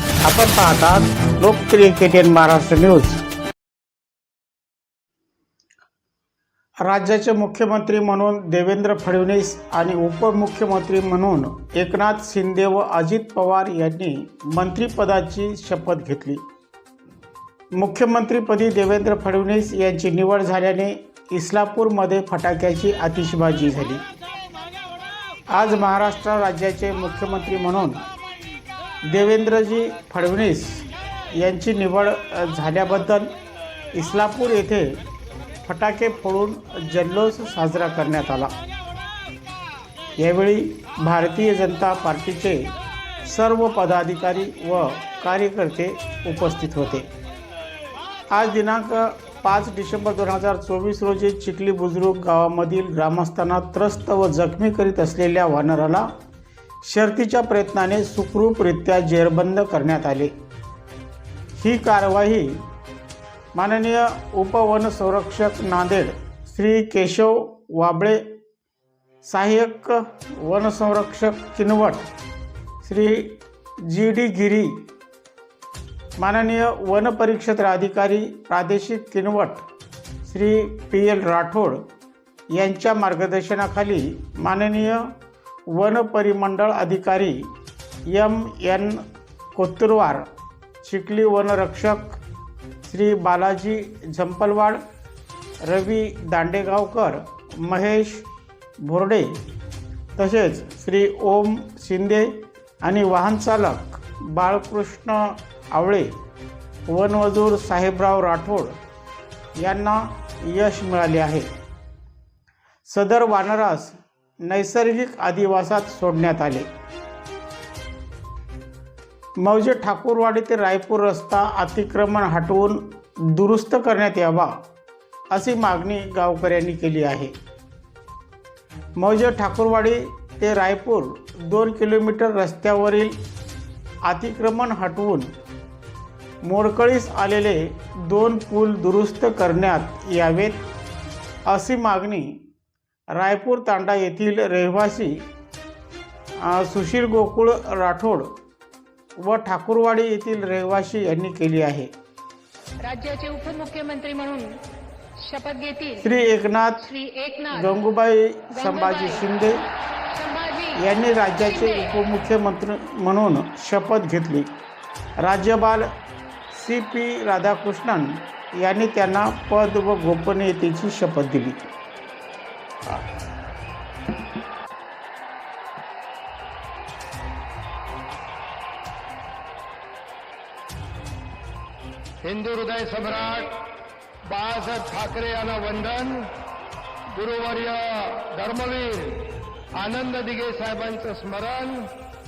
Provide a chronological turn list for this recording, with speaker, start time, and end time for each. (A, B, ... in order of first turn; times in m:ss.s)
0:00.2-0:03.2 A
0:06.8-0:16.4 A
0:17.7-0:24.0 A
0:25.5-0:28.0 A
0:29.1-0:33.3 A
0:33.9-0:35.0 A
0:35.6-0:38.5 A
0:40.2-0:42.7 A
0:43.2-0:47.1 A
0:48.3-0:56.1 A
0:56.8-1:00.3 A
1:01.6-1:02.6 A
1:03.5-1:08.2 A
1:09.2-1:12.0 A
1:12.8-1:14.8 A
1:16.2-1:19.6 A
1:20.2-1:21.8 A
1:22.5-1:25.1 A
1:25.7-1:27.5 A
1:28.1-1:29.0 A
1:29.5-1:30.3 A
1:30.8-1:32.2 A
1:32.8-1:34.8 A
1:35.6-1:38.2 A
1:38.8-1:39.4 A
1:40.2-1:46.1 A
1:46.9-1:48.7 A
1:49.6-1:51.5 A
1:52.8-1:56.7 A
1:59.4-2:04.6 A
2:05.3-2:07.3 A
2:09.0-2:13.1 A
2:14.0-2:15.3 A
2:16.4-2:20.6 A
2:21.5-2:22.4 A
2:23.1-2:25.2 A
2:26.4-2:28.3 A
2:29.2-2:31.9 A
2:32.8-2:34.5 B
2:35.2-2:36.0 B
2:36.0-2:36.8 A
2:36.8-2:37.7 B
2:37.5-2:39.6 A
2:38.5-2:39.3 B
2:40.1-2:40.8 B
2:40.8-2:44.5 A
2:41.4-2:41.9 B
2:45.2-2:45.9 A
2:46.5-2:51.6 A
3:02.2-3:03.7 C
3:04.2-3:06.3 C
3:07.1-3:11.8 C